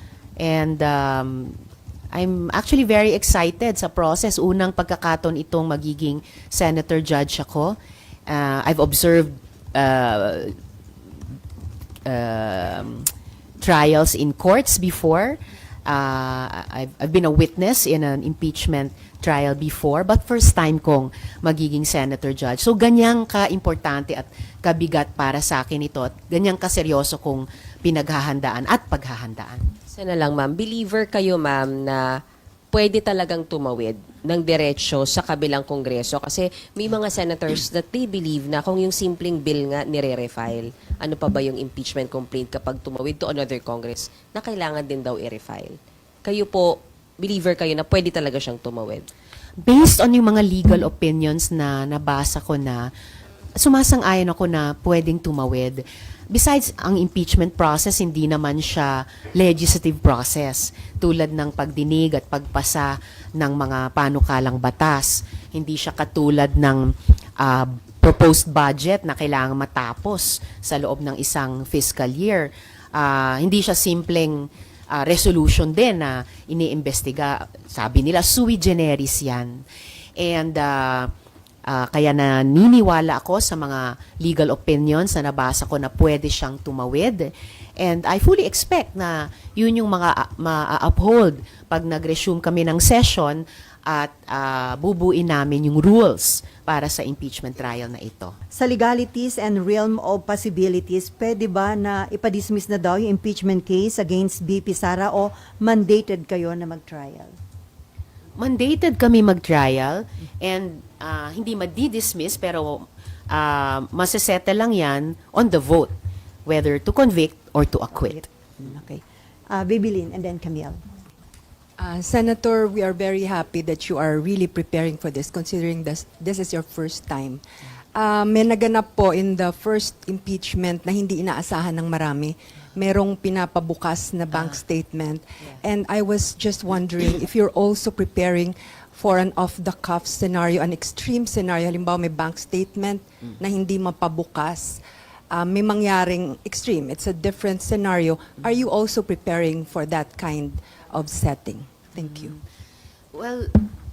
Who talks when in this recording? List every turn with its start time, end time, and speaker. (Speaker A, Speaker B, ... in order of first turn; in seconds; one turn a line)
Speaker A: 0.4-1.6
Speaker A: 2.1-7.8
Speaker A: 8.3-10.5
Speaker A: 12.1-13.1
Speaker A: 13.6-29.6
Speaker B: 29.9-32.1
Speaker B: 32.7-49.1
Speaker A: 49.6-52.9
Speaker A: 53.6-79.6
Speaker A: 80.2-81.1
Speaker A: 81.7-98.3
Speaker C: 98.5-107.3
Speaker A: 108.4-115.9
Speaker A: 116.5-118.2
Speaker C: 118.0-120.8
Speaker D: 121.8-127.4
Speaker D: 127.9-144.8
Speaker D: 145.3-152.3
Speaker A: 153.1-153.6